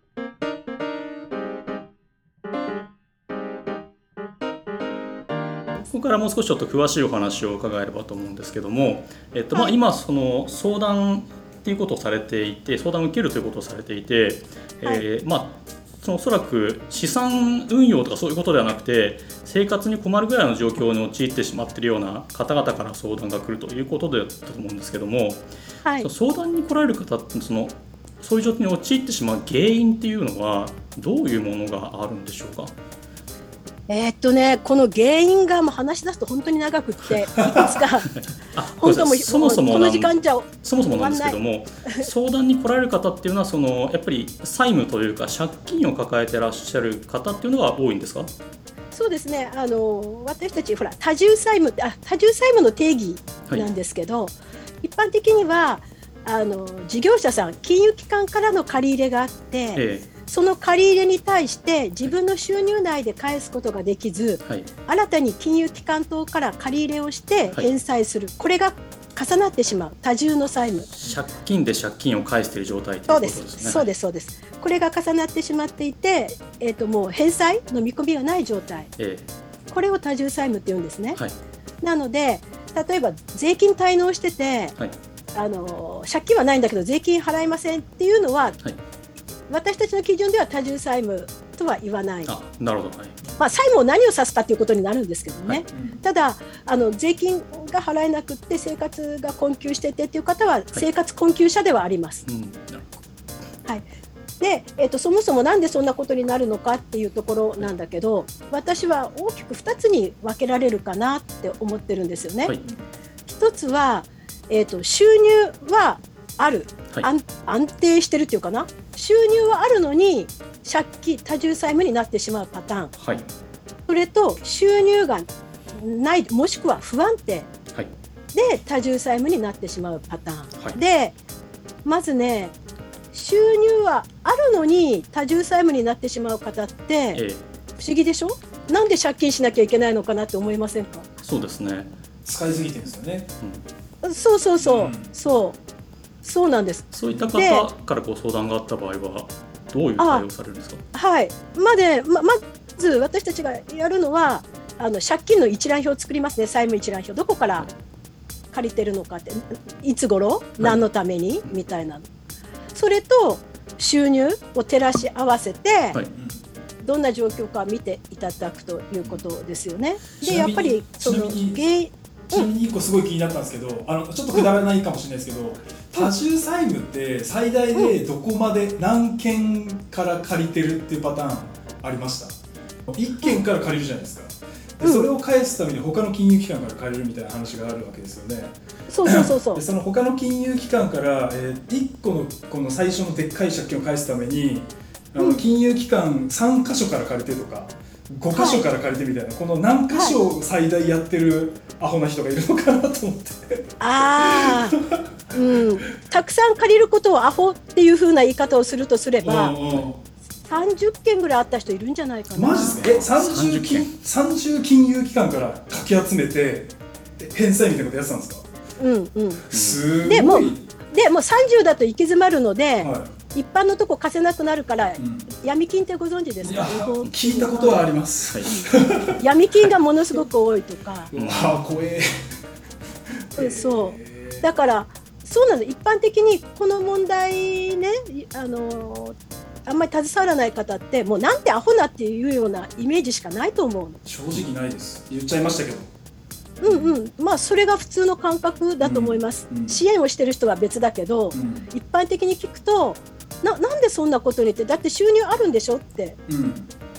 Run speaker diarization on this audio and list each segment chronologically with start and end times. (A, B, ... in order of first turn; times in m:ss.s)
0:05.9-0:25.5 A
0:26.0-0:32.7 A
0:33.9-0:38.1 B
0:38.0-0:48.3 A
0:38.8-0:42.1 B
0:48.9-1:10.9 B
0:59.8-1:00.1 A
1:10.9-1:13.9 A
1:13.1-1:18.9 B
1:19.0-1:19.3 A
1:19.7-1:21.2 B
1:21.8-1:24.8 B
1:25.4-1:28.6 B
1:29.5-1:32.3 B
1:32.3-1:33.2 A
1:33.4-1:42.2 B
1:35.7-1:36.0 C
1:42.3-1:43.0 A
1:44.4-1:52.6 B
1:53.3-2:02.9 B
2:03.0-2:03.2 A
2:03.9-2:07.5 B
2:08.3-2:11.2 B
2:11.8-2:12.6 B
2:13.1-2:17.2 B
2:17.2-2:17.4 A
2:17.8-2:21.1 B
2:21.2-2:21.9 A
2:22.2-2:23.3 C
2:24.0-2:25.6 B
2:24.6-2:25.1 C
2:26.2-2:27.6 B
2:26.9-2:30.8 A
2:30.0-2:30.2 B
2:30.9-2:37.7 B
2:38.5-2:42.1 B
2:42.8-2:46.0 B
2:46.1-2:46.4 C
2:46.8-2:52.5 B
2:50.2-2:51.6 C
2:52.3-3:02.4 C
3:02.9-3:23.7 C
3:04.8-3:05.1 B
3:08.9-3:09.6 B
3:18.3-3:18.6 B
3:23.8-3:24.8 B
3:24.2-3:25.7 C
3:25.3-3:29.6 B
3:29.2-3:30.0 C
3:30.5-3:32.8 B
3:32.3-3:38.5 C
3:32.7-3:33.9 A
3:38.8-3:39.5 B
3:39.5-3:40.7 C
3:39.5-3:39.8 A
3:40.0-3:47.8 B
3:42.8-3:43.1 C
3:45.0-3:45.3 C
3:46.4-3:49.2 C
3:48.4-3:51.1 B
3:51.1-3:52.3 C
3:51.1-3:51.6 A
3:53.3-3:54.5 C
3:53.4-4:04.0 B
4:04.0-4:05.9 C
4:06.6-4:16.2 B
4:06.7-4:07.0 C
4:08.8-4:09.8 C
4:11.3-4:11.7 C
4:16.3-4:16.7 C